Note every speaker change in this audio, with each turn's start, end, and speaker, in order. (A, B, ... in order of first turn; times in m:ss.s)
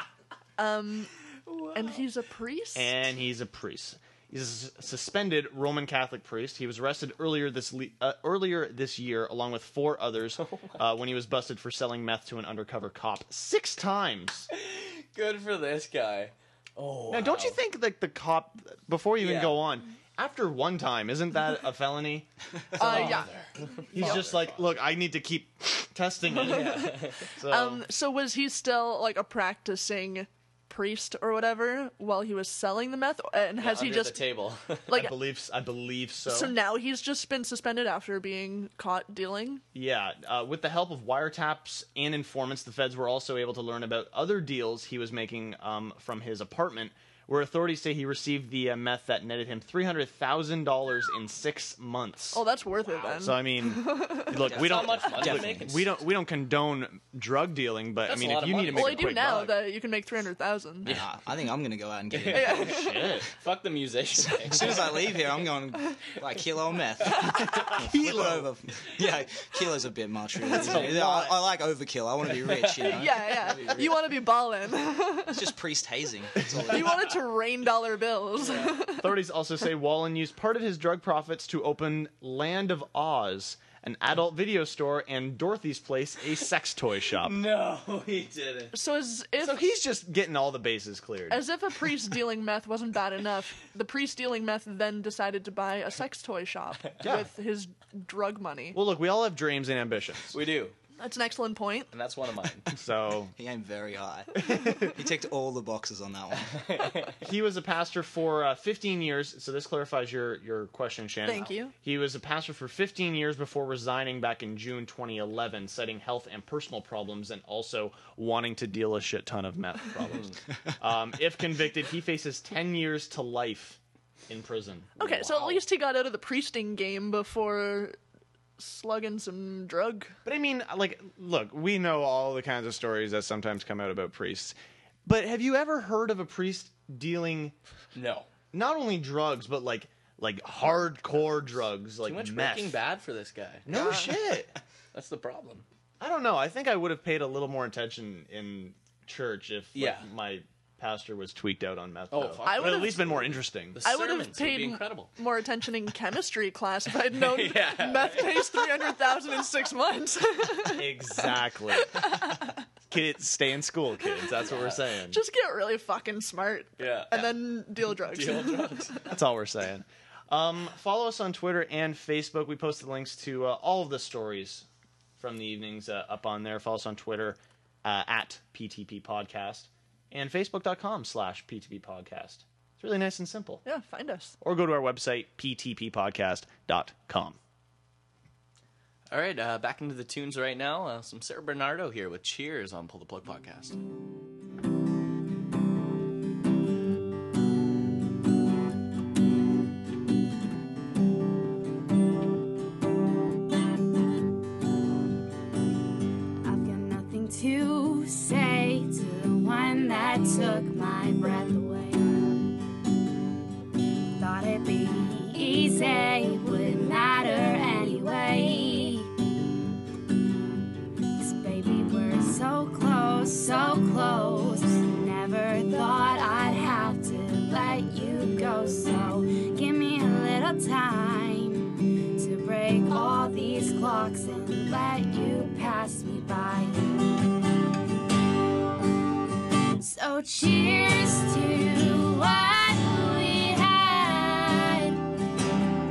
0:00.6-0:01.1 A
0:01.5-0:01.7 B
0:01.7-0:02.9 A
0:02.7-0:14.5 C
0:10.4-0:10.8 B
0:14.5-0:17.6 B
0:17.1-0:23.2 C
0:19.2-0:19.6 B
0:22.8-0:23.3 A
0:22.8-0:24.8 B
0:23.9-0:27.8 C
0:26.3-0:27.2 B
0:26.4-0:26.9 A
0:27.5-0:34.2 A
0:33.6-0:34.9 B
0:34.9-0:35.1 A
0:34.9-0:36.5 C
0:36.2-0:39.6 A
0:39.7-0:52.4 C
0:52.3-0:54.4 A
0:53.0-0:59.5 C
0:54.4-0:55.9 B
0:54.4-0:55.7 D
0:58.0-0:59.4 B
0:58.7-1:00.9 A
1:00.8-1:02.7 D
1:02.1-1:05.3 B
1:02.3-1:03.1 A
1:02.7-1:03.3 C
1:04.3-1:13.5 D
1:07.5-1:08.5 C
1:10.5-1:11.4 C
1:10.5-1:11.0 B
1:12.3-1:14.1 B
1:12.8-1:15.4 A
1:15.3-1:17.1 D
1:16.7-1:19.0 A
1:18.4-1:18.7 B
1:19.0-1:27.4 C
1:27.2-1:28.7 B
1:28.7-1:29.6 A
1:29.4-1:31.4 C
1:31.3-1:38.8 A
1:37.0-1:37.3 C
1:38.7-1:40.4 C
1:40.3-1:40.7 B
1:41.0-1:41.9 A
1:41.9-1:42.7 B
1:42.7-1:43.3 C
1:43.4-1:46.6 D
1:44.4-1:44.9 C
1:46.4-1:47.2 B
1:47.2-2:05.6 C
1:51.2-1:51.7 A
2:05.0-2:08.0 A
2:08.6-2:10.1 A
2:10.2-2:17.5 C
2:17.9-2:18.3 B
2:18.5-2:22.8 C
2:22.0-2:23.7 B
2:23.7-2:24.5 C
2:23.7-2:24.1 A
2:24.9-2:25.6 B
2:26.0-2:33.8 C
2:29.7-2:30.1 B
2:32.1-2:35.1 B
2:32.4-2:33.2 A
2:33.8-2:40.9 A
2:37.1-2:38.8 B
2:40.7-2:42.1 C
2:41.9-2:42.5 A
2:42.9-2:45.2 C
2:44.4-2:44.8 B
2:45.1-2:48.9 A
2:46.8-2:47.3 B
2:48.0-2:49.0 B
2:49.0-2:54.6 C
2:55.2-3:03.6 C
3:03.6-3:04.4 A
3:04.4-3:07.4 C
3:09.1-3:13.8 B
3:26.4-3:32.3 E
3:34.2-3:39.1 E
3:41.2-3:57.1 E
3:59.8-4:05.0 E